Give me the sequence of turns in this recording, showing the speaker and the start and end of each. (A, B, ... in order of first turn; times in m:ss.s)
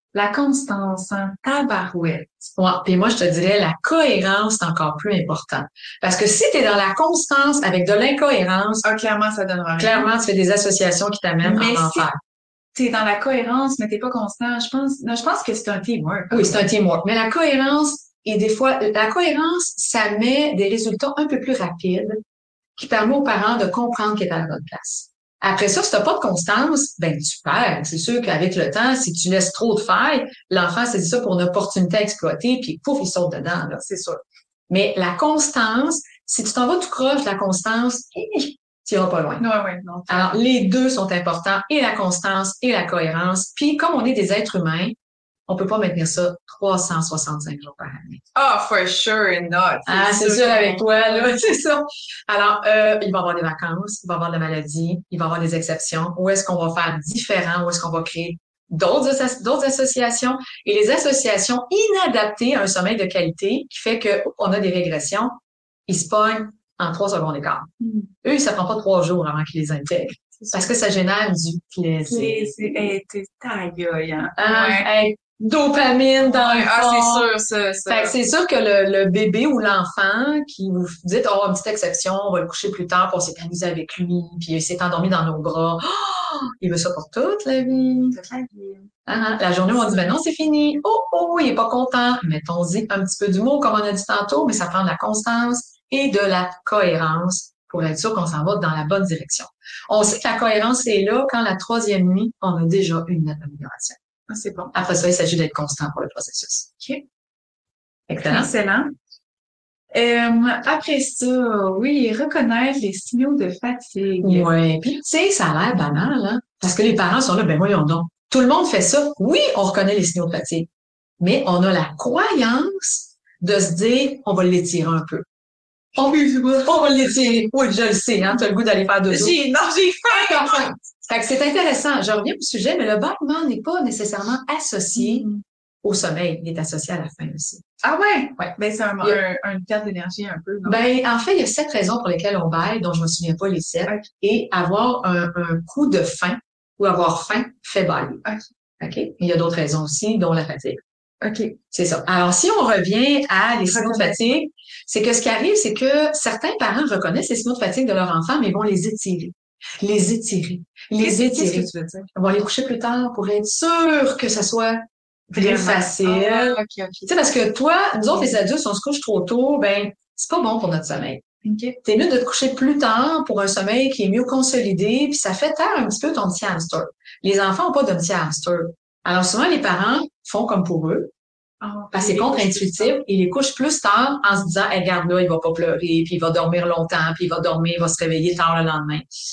0:00.1-0:02.3 A
0:02.6-0:08.8 B
0:08.8-0:10.1 A
0:09.8-0:12.2 B
0:11.4-0:12.1 A
0:12.7-0:16.7 A
0:16.3-0:22.2 B
0:22.8-0:33.8 B
0:33.8-0:34.2 A
0:34.7-0:39.4 B
0:39.4-0:40.4 A
0:40.1-0:44.9 B
0:45.5-0:48.2 B
0:48.3-0:51.5 A
0:49.9-1:07.7 B
1:07.8-1:08.1 A
1:08.2-1:12.5 B
1:12.1-1:14.9 A
1:14.4-1:17.3 B
1:16.2-1:18.2 A
1:17.9-1:28.2 B
1:28.1-1:28.9 A
1:29.1-1:44.0 B
1:44.3-1:44.7 A
1:44.7-1:46.7 B
1:48.1-1:48.5 B
1:48.2-1:48.9 A
1:49.9-1:54.5 A
1:54.2-2:00.7 B
2:01.2-2:05.2 B
2:06.0-2:09.3 B
2:06.1-2:06.6 A
2:09.1-2:10.7 A
2:10.1-2:15.3 B
2:15.0-2:15.4 A
2:15.8-2:17.6 B
2:17.8-2:20.8 A
2:18.4-2:19.2 B
2:20.6-2:28.2 B
2:28.8-2:30.8 B
2:31.2-2:31.6 A
2:31.7-2:51.2 B
2:33.6-2:34.2 A
2:41.0-2:42.1 A
2:45.3-2:47.2 A
2:48.1-2:48.4 A
2:51.4-2:51.8 A
2:51.8-3:01.1 B
3:01.6-3:02.9 A
3:01.9-3:09.0 B